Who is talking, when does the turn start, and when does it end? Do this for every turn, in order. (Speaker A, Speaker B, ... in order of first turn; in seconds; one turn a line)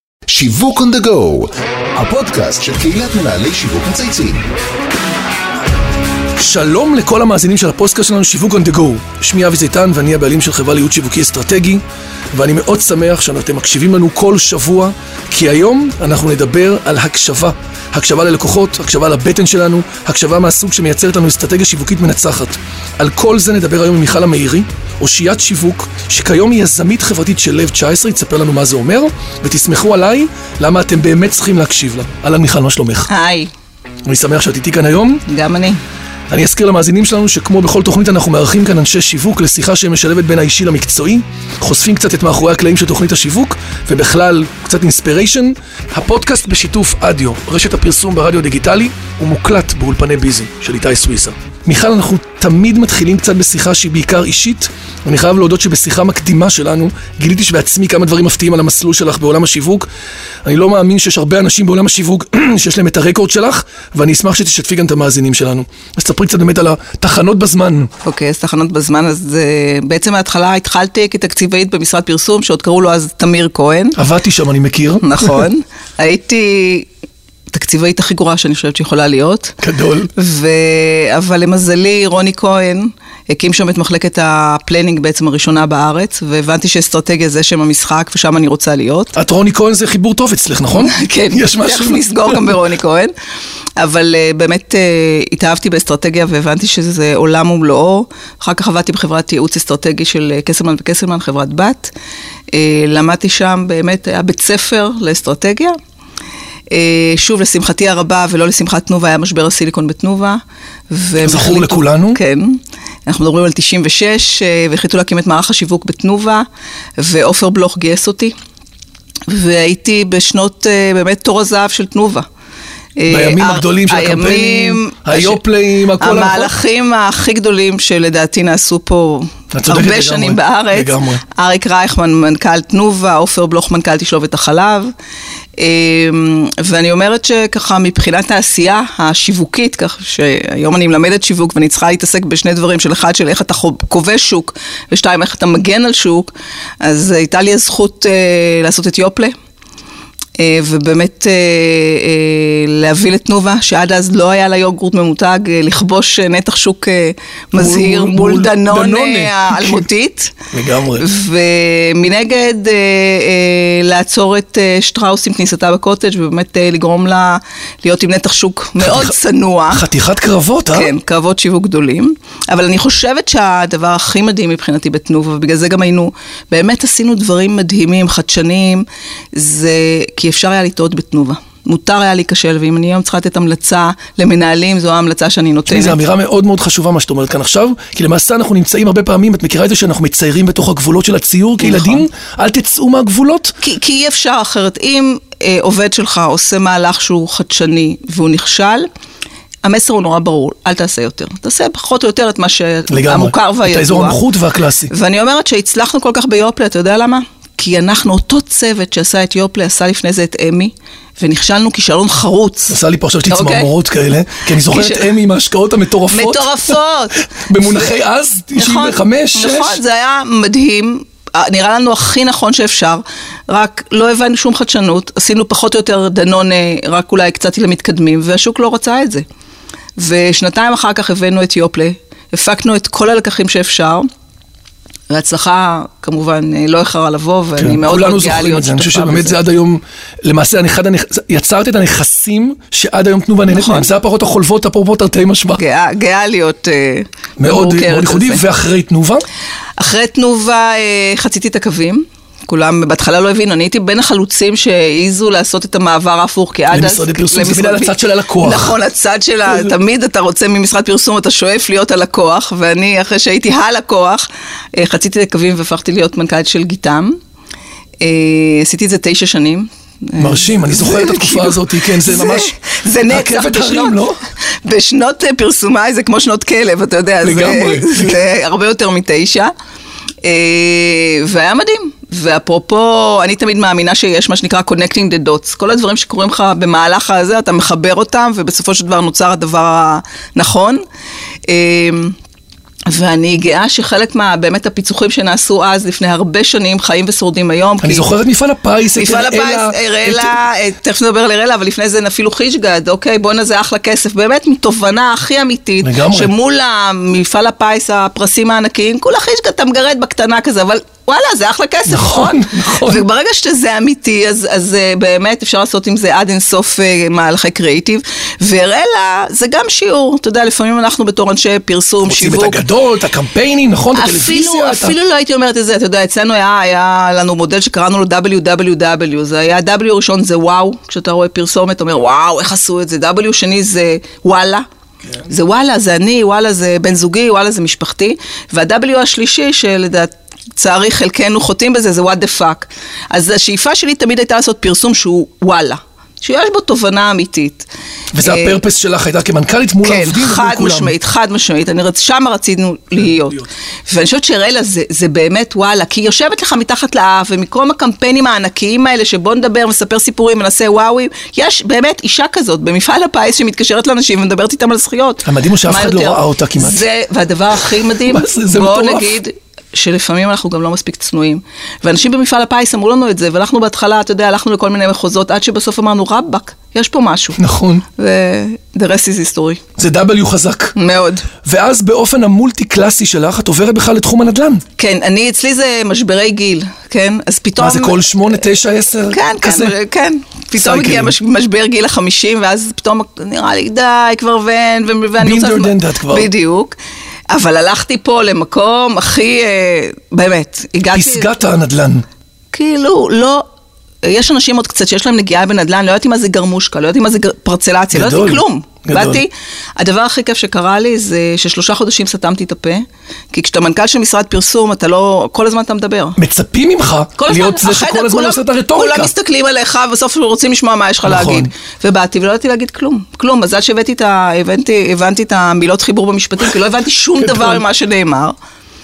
Speaker A: 0.3-4.4
Speaker B: 6.4-11.8
Speaker B: 12.3-33.1
Speaker C: 33.1-33.5
Speaker B: 34.0-35.2
Speaker C: 35.2-35.8
Speaker B: 36.3-59.9
Speaker B: 60.4-67.9
Speaker C: 68.0-74.0
Speaker B: 74.0-75.5
Speaker C: 75.0-76.9
Speaker C: 77.5-79.5
Speaker B: 79.6-80.1
Speaker C: 80.1-89.1
Speaker B: 89.1-92.6
Speaker C: 90.8-93.1
Speaker C: 93.8-101.9
Speaker C: 102.5-105.7
Speaker C: 106.7-110.4
Speaker C: 110.9-116.5
Speaker B: 111.2-112.2
Speaker C: 117.0-118.3
Speaker C: 119.3-122.2
Speaker C: 123.0-125.4
Speaker B: 123.1-126.5
Speaker C: 126.0-134.9
Speaker B: 129.5-131.2
Speaker C: 135.6-146.3
Speaker C: 146.8-149.3
Speaker C: 150.4-160.3
Speaker B: 157.5-159.9
Speaker B: 160.5-161.1
Speaker C: 160.9-169.8
Speaker B: 168.8-169.1
Speaker B: 169.7-170.9
Speaker C: 170.7-186.0
Speaker B: 185.7-193.5
Speaker C: 191.6-192.0
Speaker C: 193.6-198.9
Speaker C: 199.6-204.2
Speaker B: 202.9-204.9
Speaker C: 204.9-212.8
Speaker B: 212.7-216.7
Speaker C: 213.3-213.7
Speaker C: 214.5-215.1
Speaker C: 216.1-218.0
Speaker B: 217.4-219.8
Speaker C: 218.6-229.2
Speaker C: 230.0-234.1
Speaker C: 235.1-239.4
Speaker B: 237.6-245.6
Speaker C: 243.5-243.9
Speaker C: 245.5-248.4
Speaker B: 247.4-249.2
Speaker C: 249.8-267.1
Speaker B: 256.7-258.8
Speaker B: 259.4-259.7
Speaker C: 268.0-274.0
Speaker B: 270.2-274.2
Speaker C: 274.6-279.5
Speaker B: 277.2-278.2
Speaker C: 280.2-290.8
Speaker C: 291.5-292.1
Speaker C: 292.9-298.1
Speaker B: 297.8-300.4
Speaker C: 298.9-322.6
Speaker B: 305.8-306.3
Speaker B: 311.9-313.0
Speaker B: 322.0-324.9
Speaker C: 323.9-334.6
Speaker C: 335.2-347.7
Speaker B: 348.1-350.9
Speaker C: 348.2-348.6
Speaker C: 349.8-377.4
Speaker B: 353.1-353.4
Speaker B: 365.2-366.8
Speaker B: 367.7-369.2
Speaker B: 377.4-377.8
Speaker C: 377.9-379.6
Speaker B: 379.8-380.7
Speaker C: 380.7-381.3
Speaker B: 381.4-384.6
Speaker C: 384.8-388.0
Speaker B: 387.6-389.7
Speaker C: 389.1-396.8
Speaker B: 390.6-391.1
Speaker B: 395.2-396.3
Speaker C: 397.3-401.3
Speaker B: 400.9-402.0
Speaker C: 402.5-403.4
Speaker C: 404.0-416.2
Speaker B: 407.9-409.2
Speaker B: 416.2-419.1
Speaker C: 417.2-428.3
Speaker B: 421.0-421.5
Speaker B: 427.2-427.6